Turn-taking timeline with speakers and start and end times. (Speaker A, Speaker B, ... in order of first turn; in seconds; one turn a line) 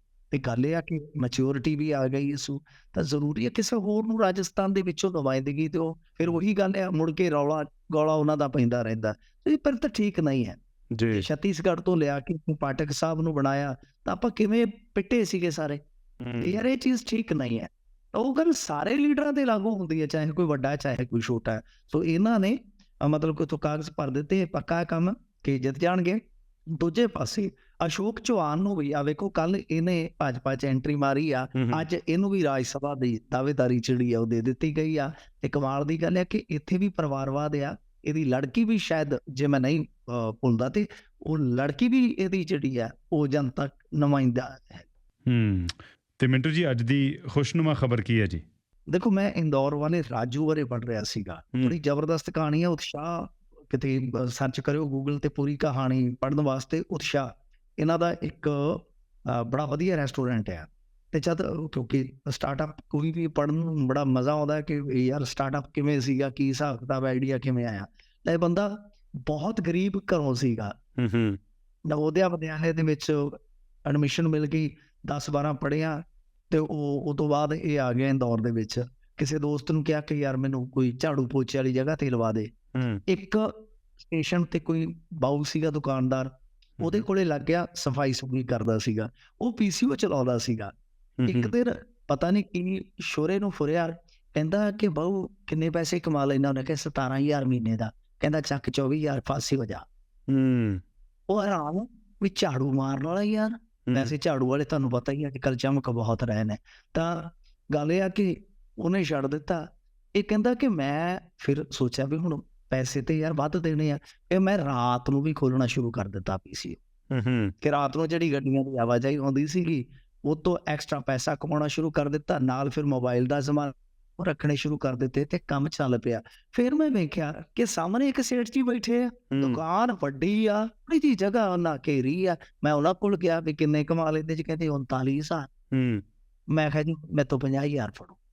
Speaker A: 0.3-10.6
Speaker B: 10.9-11.3
Speaker A: 11.1-15.8
Speaker B: 16.2-16.6
Speaker A: 16.4-26.2
Speaker A: 26.8-44.9
Speaker B: 31.6-31.9
Speaker B: 45.3-48.4
Speaker A: 48.9-68.7
Speaker A: 69.3-70.7
Speaker B: 71.0-71.4
Speaker A: 71.9-76.0
Speaker A: 76.5-82.5
Speaker B: 82.8-83.0
Speaker A: 83.1-90.7
Speaker B: 86.8-87.1
Speaker B: 91.2-91.5
Speaker A: 91.3-99.8
Speaker B: 100.3-100.8
Speaker A: 101.3-109.6
Speaker A: 110.1-116.8
Speaker B: 117.1-117.5
Speaker A: 117.6-135.5
Speaker B: 129.3-129.6
Speaker B: 135.7-136.0
Speaker A: 136.5-138.2